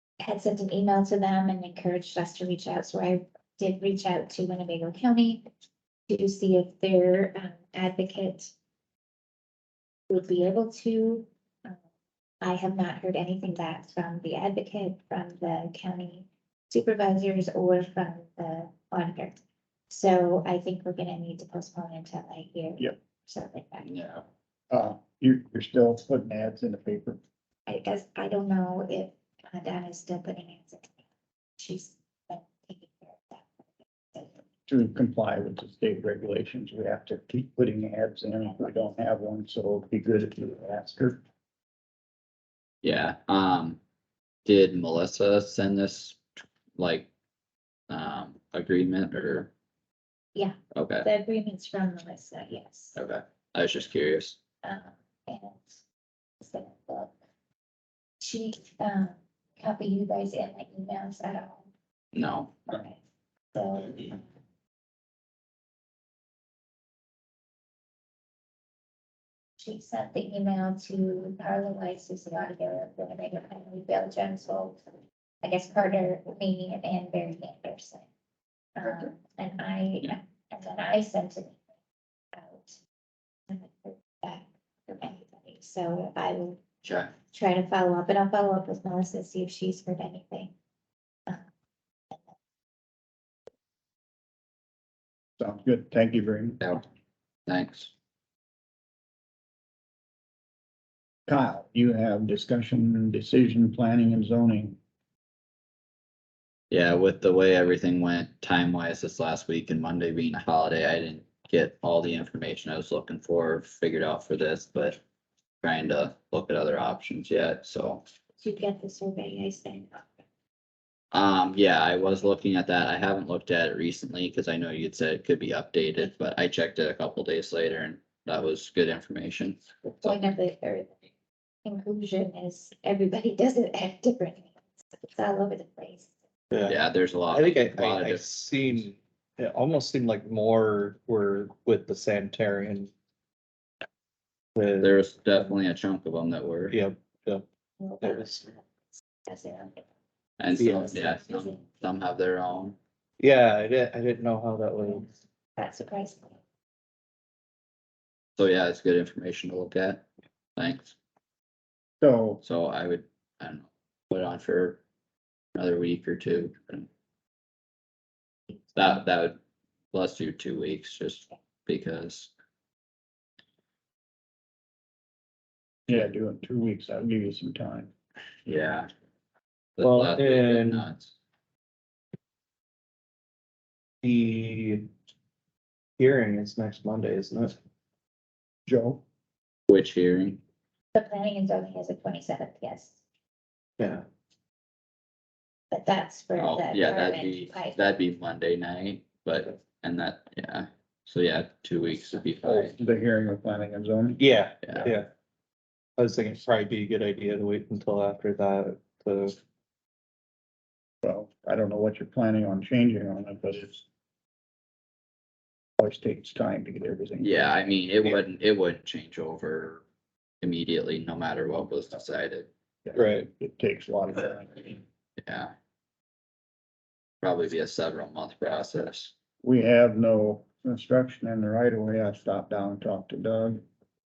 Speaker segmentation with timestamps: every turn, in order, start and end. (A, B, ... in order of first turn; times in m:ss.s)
0:00.2-0:05.4 A
0:06.1-0:08.5 A
0:10.1-0:11.8 A
0:12.4-0:23.9 A
0:23.8-0:24.2 B
0:24.7-0:27.2 C
0:27.7-0:31.0 A
0:31.6-0:33.5 A
0:34.7-0:41.2 C
0:42.8-0:43.8 B
0:44.4-0:46.2 B
0:46.8-0:47.1 B
0:47.9-0:49.5 B
0:50.3-0:53.0 A
0:50.7-0:51.1 B
0:53.0-0:54.4 B
0:54.6-0:55.8 A
0:56.4-0:57.1 A
0:58.2-1:01.7 A
1:02.1-1:02.6 B
1:02.7-1:03.0 A
1:03.5-1:04.2 A
1:09.6-1:14.8 A
1:15.4-1:18.0 A
1:18.8-1:21.6 A
1:22.3-1:22.8 A
1:23.5-1:26.6 A
1:26.8-1:27.1 B
1:27.2-1:30.5 A
1:35.4-1:36.6 C
1:37.4-1:37.9 B
1:41.3-1:44.8 C
1:46.7-1:55.0 B
1:55.6-1:58.0 B
1:58.4-2:00.1 A
2:01.1-2:10.3 B
2:10.0-2:10.9 A
2:11.6-2:16.1 A
2:16.5-2:16.8 D
2:16.6-2:18.2 B
2:17.3-2:22.9 D
2:24.6-2:24.9 D
2:24.8-2:26.8 B
2:26.7-2:27.4 D
2:27.8-2:28.6 A
2:28.0-2:28.4 D
2:29.2-2:29.8 A
2:30.4-2:32.8 B
2:30.6-2:31.0 D
2:31.0-2:31.6 A
2:33.2-2:35.0 D
2:35.6-2:36.4 A
2:38.4-2:40.0 B
2:40.6-2:40.9 B
2:42.0-2:42.4 C
2:42.4-2:44.8 B
2:45.5-2:46.9 B
2:48.7-2:49.4 B
2:49.9-2:52.3 B
2:55.9-2:57.9 C
2:58.4-2:58.9 B
2:59.8-3:01.1 B
2:59.8-3:00.9 D
3:04.0-3:04.9 D
3:06.0-3:07.5 D
3:08.6-3:09.0 C
3:09.7-3:10.4 B
3:10.9-3:13.0 A
3:13.8-3:14.0 D
3:15.7-3:17.8 A
3:16.4-3:22.8 B
3:22.4-3:24.2 C
3:24.2-3:25.1 D
3:26.0-3:29.4 D
3:31.0-3:33.8 C
3:35.8-3:37.3 C
3:37.2-3:39.8 B
3:40.4-3:42.5 B
3:42.8-3:44.8 C
3:42.9-3:43.3 D
3:45.2-3:45.5 B
3:47.2-3:49.1 B
3:49.4-3:53.6 C